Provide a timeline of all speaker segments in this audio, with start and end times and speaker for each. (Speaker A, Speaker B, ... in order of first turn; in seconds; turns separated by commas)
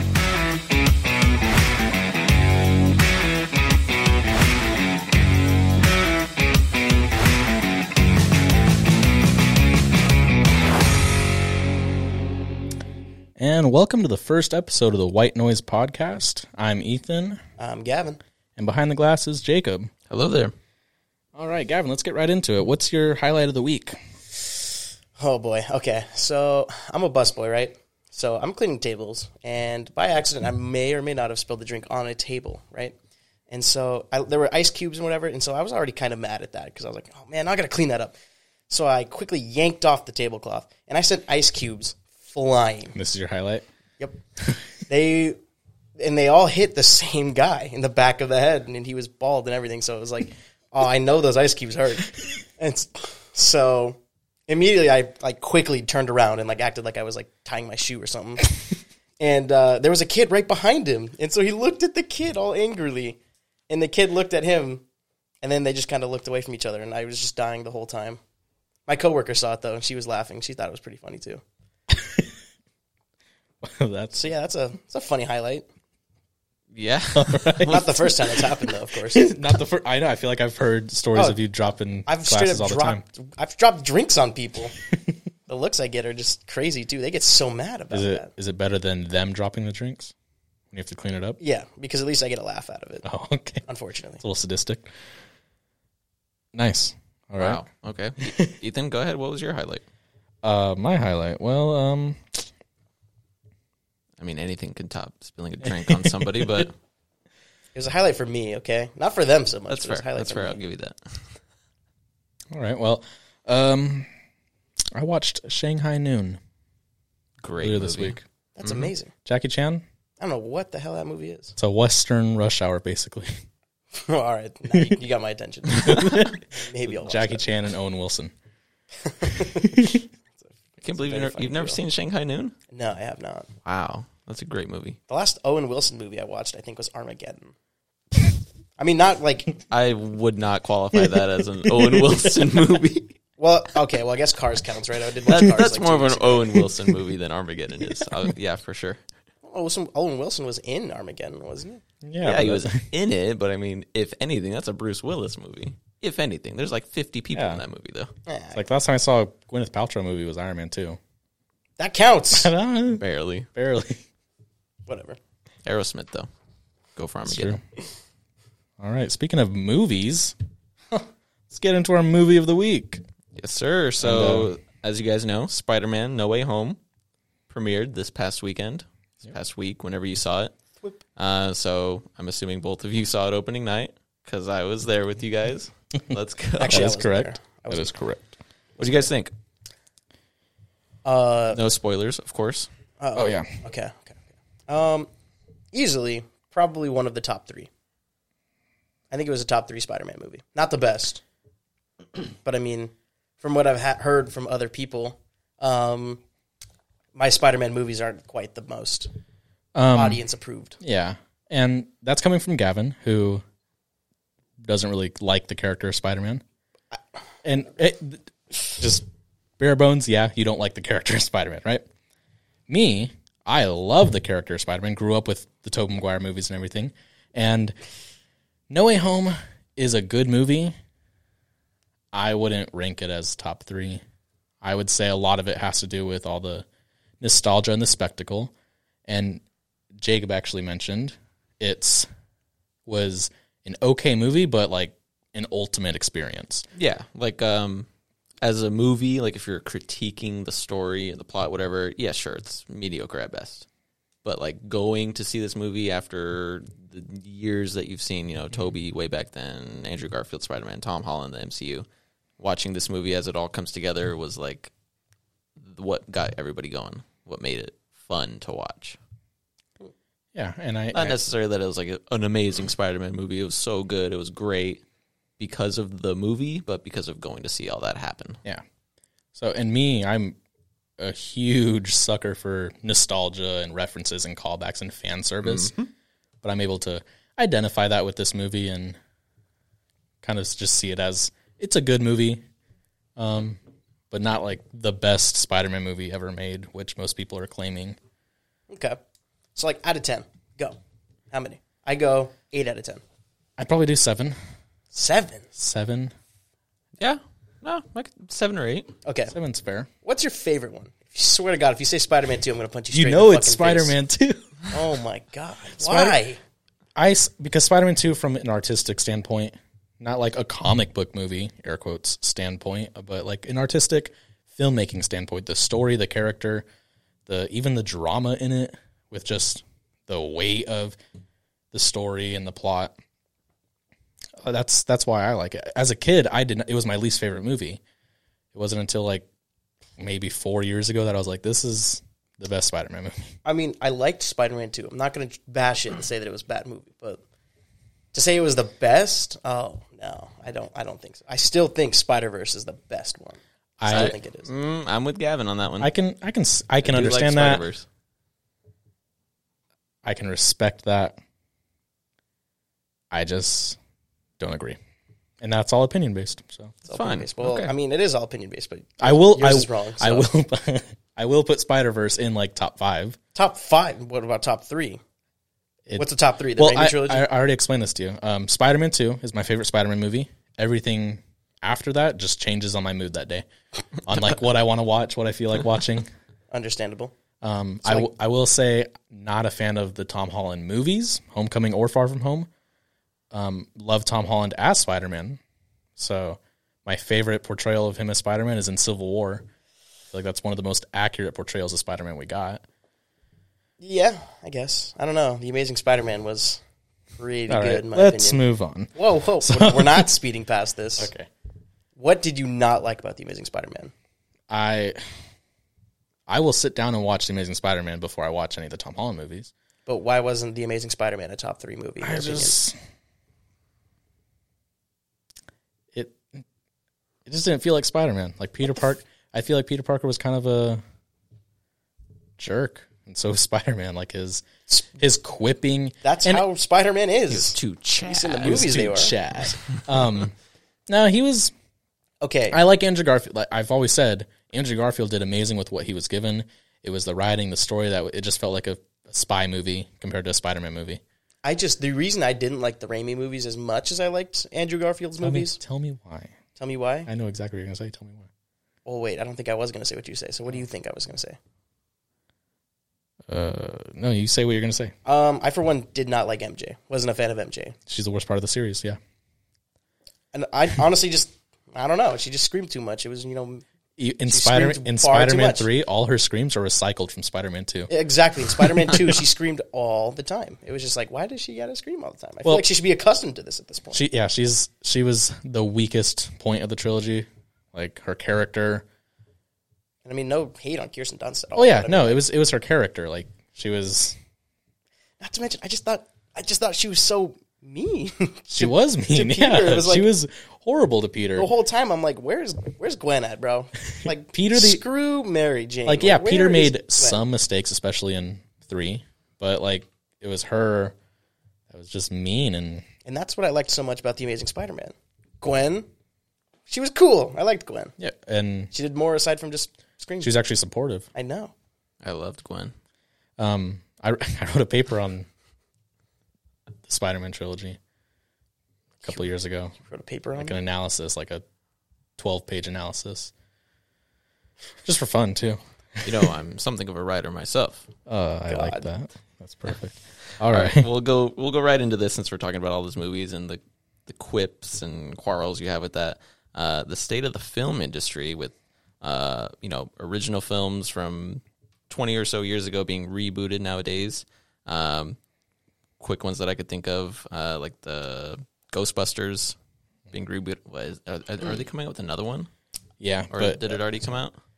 Speaker A: 13.4-17.4, Speaker B: 17.6-18.2, Speaker A: 18.6-19.9, Speaker C: 20.1-20.6, Speaker A: 21.4-24.0, Speaker B: 25.2-33.0, Speaker B: 33.5-38.1, Speaker B: 38.7-43.0, Speaker A: 43.0-43.7, Speaker B: 44.9-45.4, Speaker B: 46.0-58.6, Speaker B: 59.2-63.2, Speaker B: 63.7-64.8, Speaker B: 65.4-68.2, Speaker B: 68.9-71.4, Speaker A: 71.9-72.3, Speaker A: 73.6-74.2, Speaker B: 74.1-75.7, Speaker C: 76.7-78.2, Speaker A: 77.1-77.9, Speaker B: 77.7-79.4, Speaker A: 79.1-83.0, Speaker B: 82.1-84.7, Speaker B: 85.5-88.3, Speaker A: 87.9-90.1, Speaker A: 90.7-91.4, Speaker B: 91.4-93.1, Speaker A: 93.0-93.6, Speaker B: 93.7-94.2, Speaker A: 94.2-94.9, Speaker A: 96.5-97.6, Speaker C: 97.4-99.8, Speaker A: 98.2-98.5, Speaker A: 100.4-102.5, Speaker C: 104.2-106.7, Speaker A: 105.6-106.7, Speaker B: 107.8-110.6, Speaker C: 109.7-111.4, Speaker A: 112.5-114.1, Speaker A: 114.9-116.4, Speaker C: 117.4-118.9, Speaker A: 117.6-118.2, Speaker B: 118.6-119.1, Speaker A: 119.2-119.8, Speaker B: 120.2-121.6, Speaker A: 121.6-123.3, Speaker B: 123.9-127.5, Speaker A: 125.7-128.3, Speaker B: 129.0-131.8, Speaker A: 129.2-130.0, Speaker C: 130.8-132.6, Speaker B: 132.7-133.5, Speaker C: 133.7-135.0, Speaker B: 135.1-137.5, Speaker B: 138.8-139.6, Speaker C: 139.7-143.2, Speaker A: 140.9-142.2, Speaker B: 143.4-146.7, Speaker C: 145.3-149.0, Speaker B: 149.4-151.8, Speaker A: 152.0-152.8, Speaker C: 152.2-158.1, Speaker A: 157.3-157.6, Speaker B: 158.3-158.7, Speaker A: 158.5-161.0, Speaker B: 161.8-162.5, Speaker A: 162.3-164.0, Speaker C: 163.0-163.5, Speaker B: 164.9-165.2, Speaker C: 165.7-166.3, Speaker C: 167.0-167.6, Speaker A: 167.3-167.6, Speaker A: 168.8-170.3, Speaker A: 170.9-173.0, Speaker C: 173.4-176.8, Speaker A: 174.0-174.5, Speaker C: 177.5-180.5, Speaker C: 181.2-186.9, Speaker B: 186.6-187.9, Speaker A: 186.7-188.3, Speaker C: 188.8-189.3, Speaker B: 191.1-191.6, Speaker C: 191.5-192.7, Speaker B: 193.0-194.2, Speaker A: 193.2-193.5, Speaker B: 194.7-195.1, Speaker B: 195.7-197.7, Speaker B: 199.1-201.2, Speaker B: 202.2-206.2, Speaker B: 207.2-209.1, Speaker A: 209.8-210.2, Speaker B: 209.9-210.8, Speaker A: 210.8-213.4, Speaker A: 214.6-216.4, Speaker A: 217.4-219.1, Speaker A: 219.6-221.9, Speaker A: 222.7-227.8, Speaker A: 228.7-230.8, Speaker A: 232.1-234.0, Speaker A: 234.6-236.7, Speaker A: 237.2-238.5, Speaker A: 239.1-239.4, Speaker A: 240.0-242.1, Speaker A: 242.9-246.7, Speaker C: 246.8-247.9, Speaker C: 248.4-253.7, Speaker C: 254.2-261.9, Speaker C: 262.4-264.7, Speaker C: 265.6-269.0, Speaker A: 270.3-271.2, Speaker C: 270.9-274.8, Speaker C: 275.4-278.4, Speaker A: 279.3-280.4, Speaker A: 281.0-285.8, Speaker C: 285.4-285.9, Speaker A: 286.4-289.0, Speaker A: 290.2-292.4, Speaker A: 293.2-293.6, Speaker A: 294.1-298.0, Speaker B: 298.7-299.0, Speaker B: 299.6-300.8, Speaker B: 301.3-303.0, Speaker A: 303.6-304.4, Speaker B: 304.9-305.4, Speaker A: 305.6-306.1, Speaker C: 307.0-308.9, Speaker B: 309.1-309.3, Speaker A: 309.3-309.9, Speaker B: 310.0-314.0, Speaker A: 312.9-314.8, Speaker B: 314.7-316.4, Speaker A: 315.8-316.2, Speaker A: 317.0-326.7, Speaker A: 327.3-331.0, Speaker A: 331.7-332.9, Speaker A: 334.4-337.8, Speaker A: 338.5-339.3, Speaker A: 340.0-343.3, Speaker B: 343.4-347.2, Speaker B: 348.1-354.5, Speaker A: 353.8-354.1, Speaker C: 353.9-355.9, Speaker A: 355.8-357.6, Speaker C: 356.8-357.9, Speaker A: 360.0-361.2, Speaker A: 363.1-363.8, Speaker A: 364.4-364.8, Speaker A: 365.4-366.8, Speaker C: 366.9-367.7, Speaker B: 366.9-370.3, Speaker A: 369.0-373.2, Speaker B: 373.4-375.0, Speaker A: 375.9-383.4, Speaker B: 376.0-377.3, Speaker A: 384.0-386.1, Speaker B: 386.5-387.1, Speaker A: 387.4-392.5, Speaker B: 387.8-388.1, Speaker A: 393.3-395.4, Speaker A: 396.0-399.5, Speaker A: 400.1-402.6, Speaker B: 403.8-406.6, Speaker B: 407.2-408.4, Speaker A: 407.5-410.1, Speaker B: 408.9-411.1, Speaker A: 411.0-411.3, Speaker B: 412.0-413.9, Speaker A: 414.5-415.0, Speaker A: 416.3-419.5, Speaker B: 419.9-422.6, Speaker A: 422.0-422.8, Speaker A: 425.9-426.4, Speaker A: 427.3-430.8, Speaker A: 432.4-434.4, Speaker A: 435.0-436.5, Speaker B: 436.0-439.1, Speaker C: 437.3-438.7, Speaker A: 438.4-440.4, Speaker A: 440.9-441.5, Speaker B: 442.2-442.6, Speaker A: 442.5-451.0, Speaker B: 451.4-455.6, Speaker A: 455.2-456.3, Speaker B: 456.6-457.1, Speaker A: 457.1-458.3, Speaker B: 458.9-461.4, Speaker A: 463.3-464.9, Speaker B: 465.1-467.8, Speaker A: 467.9-469.0, Speaker B: 470.3-473.6, Speaker A: 474.0-477.9, Speaker B: 474.3-475.7, Speaker B: 477.9-484.0, Speaker A: 478.5-479.0, Speaker A: 483.9-488.9, Speaker B: 490.1-492.2, Speaker A: 491.6-494.2, Speaker B: 495.2-500.1, Speaker A: 498.5-501.5, Speaker B: 501.4-507.2, Speaker A: 504.0-504.8, Speaker A: 505.9-510.9, Speaker A: 511.7-512.9, Speaker B: 513.0-515.9, Speaker B: 516.7-517.9, Speaker A: 518.0-518.7, Speaker B: 518.7-520.3, Speaker A: 520.2-521.1, Speaker B: 521.1-521.5, Speaker C: 522.0-522.7, Speaker A: 523.4-525.3, Speaker A: 526.9-527.8, Speaker A: 529.0-529.8, Speaker B: 529.8-530.6, Speaker A: 530.4-531.4, Speaker A: 532.2-533.3, Speaker A: 534.8-536.3, Speaker C: 536.0-537.9, Speaker A: 538.1-540.9, Speaker B: 538.5-538.9, Speaker C: 540.3-555.2, Speaker C: 556.0-559.6, Speaker C: 560.1-562.5, Speaker A: 563.0-563.8, Speaker C: 563.3-564.4